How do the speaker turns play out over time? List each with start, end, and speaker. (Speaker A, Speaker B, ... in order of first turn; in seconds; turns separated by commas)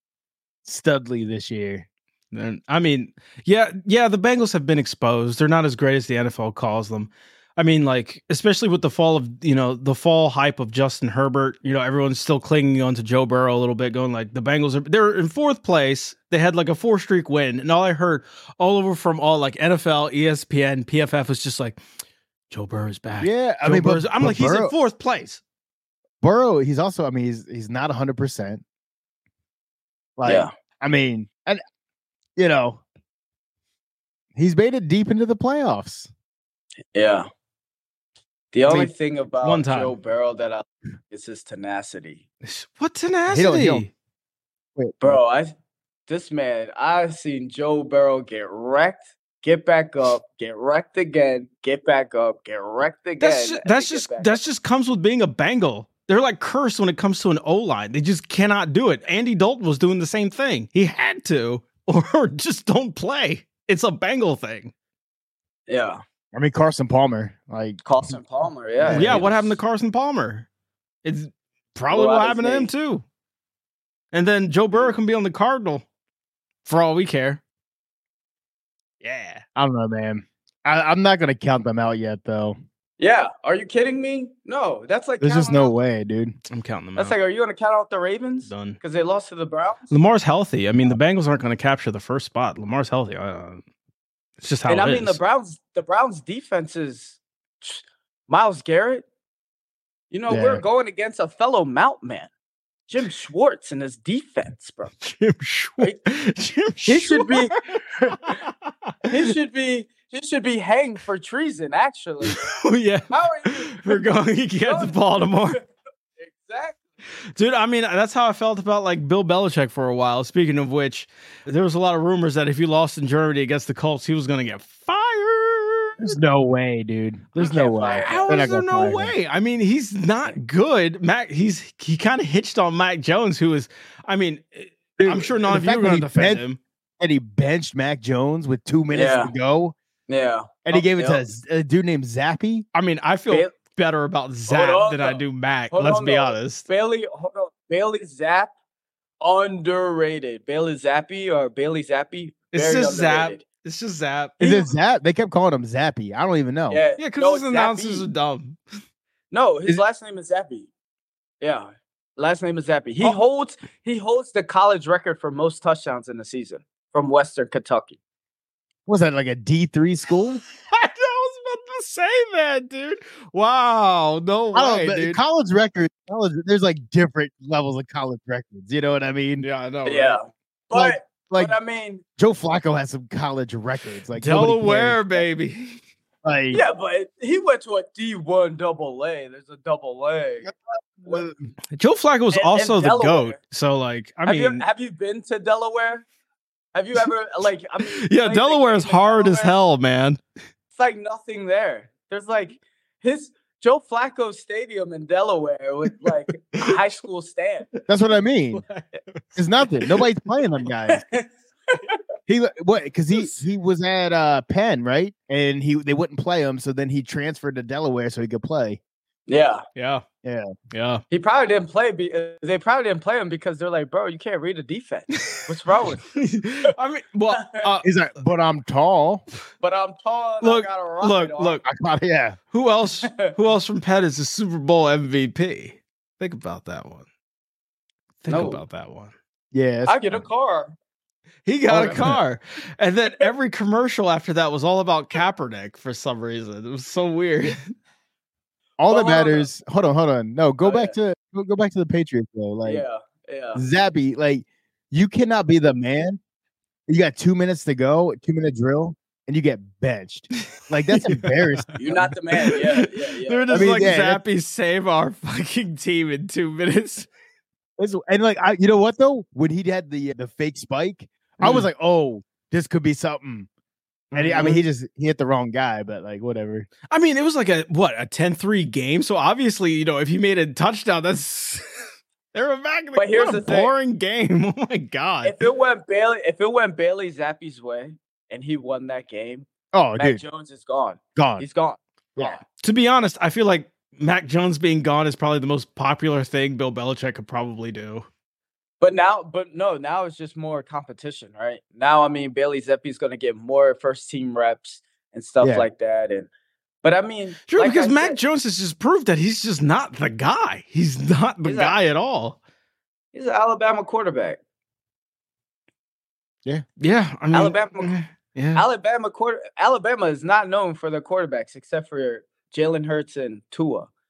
Speaker A: 0.7-1.9, Speaker B: 2.3-21.8, Speaker B: 22.5-25.4, Speaker A: 23.2-24.7, Speaker A: 26.2-28.6, Speaker A: 30.2-31.6, Speaker C: 30.2-30.5, Speaker A: 32.4-32.8, Speaker A: 34.4-36.1, Speaker C: 36.9-37.3, Speaker C: 38.5-42.2, Speaker B: 39.4-39.9, Speaker B: 42.4-43.9, Speaker A: 43.3-43.9, Speaker A: 44.8-45.2, Speaker C: 45.0-45.5, Speaker C: 46.1-54.4, Speaker B: 53.2-64.7, Speaker C: 65.7-66.0, Speaker A: 66.3-67.8, Speaker C: 67.8-69.5, Speaker A: 68.8-69.3, Speaker B: 68.9-70.5, Speaker B: 71.0-73.0, Speaker C: 71.9-72.7, Speaker B: 74.1-75.8, Speaker B: 76.7-77.4, Speaker B: 79.0-79.4, Speaker A: 79.6-82.6, Speaker C: 83.0-85.8, Speaker A: 85.2-86.4, Speaker B: 86.5-87.2, Speaker C: 87.0-89.9, Speaker B: 88.5-88.8, Speaker B: 89.9-93.6, Speaker B: 94.4-95.2, Speaker C: 94.7-99.0, Speaker C: 100.1-102.3, Speaker A: 100.3-100.6, Speaker C: 102.9-104.9, Speaker B: 105.0-109.1, Speaker C: 106.9-108.4, Speaker C: 109.0-112.4, Speaker B: 112.2-115.6, Speaker C: 113.1-114.1, Speaker C: 114.7-115.0, Speaker C: 116.2-116.8, Speaker B: 117.4-126.2, Speaker A: 126.0-129.1, Speaker C: 127.4-128.4, Speaker B: 128.0-136.6, Speaker A: 135.0-136.4, Speaker A: 137.0-139.8, Speaker C: 138.9-139.3, Speaker C: 140.1-141.2, Speaker A: 140.6-142.7, Speaker B: 142.7-146.7, Speaker C: 144.5-148.5, Speaker C: 149.2-153.4, Speaker B: 152.5-154.7, Speaker A: 154.4-156.8, Speaker C: 156.7-158.1, Speaker B: 157.0-158.6, Speaker C: 159.3-160.7, Speaker C: 161.4-168.0, Speaker A: 168.9-170.4, Speaker B: 170.6-175.2, Speaker A: 174.5-179.4, Speaker B: 179.4-180.2, Speaker C: 179.8-182.0, Speaker A: 180.7-181.6, Speaker A: 182.2-185.3, Speaker B: 184.2-185.8, Speaker A: 186.2-186.6, Speaker C: 186.5-190.5, Speaker A: 190.4-191.4, Speaker B: 191.7-194.6, Speaker C: 192.3-193.4, Speaker C: 194.3-196.1, Speaker C: 196.7-199.5, Speaker B: 197.8-200.2, Speaker C: 200.7-207.7, Speaker A: 207.9-208.6, Speaker B: 208.5-209.2, Speaker A: 209.3-211.0, Speaker C: 210.9-212.0, Speaker A: 212.3-218.8, Speaker C: 219.3-219.6, Speaker B: 219.8-220.0, Speaker A: 220.2-220.5, Speaker B: 220.7-221.0, Speaker C: 221.1-226.1, Speaker B: 225.2-225.4, Speaker B: 226.1-227.9, Speaker A: 227.8-229.2, Speaker C: 229.6-231.6, Speaker B: 230.4-231.6, Speaker A: 231.7-232.4, Speaker B: 232.5-237.1, Speaker C: 233.0-233.3, Speaker B: 238.2-239.1, Speaker C: 238.3-238.6, Speaker A: 239.5-240.2, Speaker C: 239.9-240.7, Speaker B: 241.5-247.7, Speaker A: 241.7-242.2, Speaker C: 241.7-242.0, Speaker A: 248.8-252.8, Speaker C: 248.9-249.5, Speaker C: 250.6-250.9, Speaker C: 252.6-253.6, Speaker A: 253.6-256.2, Speaker A: 256.9-262.1, Speaker B: 260.9-261.7, Speaker C: 261.8-263.6, Speaker B: 262.4-267.1, Speaker A: 263.5-264.2, Speaker A: 267.8-273.5, Speaker B: 271.4-271.7, Speaker A: 274.1-276.7, Speaker B: 274.2-274.6, Speaker B: 276.9-281.6, Speaker B: 282.3-285.4, Speaker C: 282.9-283.7, Speaker C: 285.2-289.5, Speaker A: 289.7-290.2, Speaker C: 290.0-292.4, Speaker A: 291.2-291.4, Speaker B: 292.6-298.1, Speaker C: 298.8-306.3, Speaker A: 305.4-305.7, Speaker C: 306.8-308.2, Speaker B: 307.5-312.4, Speaker C: 311.4-311.8, Speaker C: 313.1-314.4, Speaker B: 316.8-318.6, Speaker C: 317.3-317.9, Speaker C: 318.6-323.9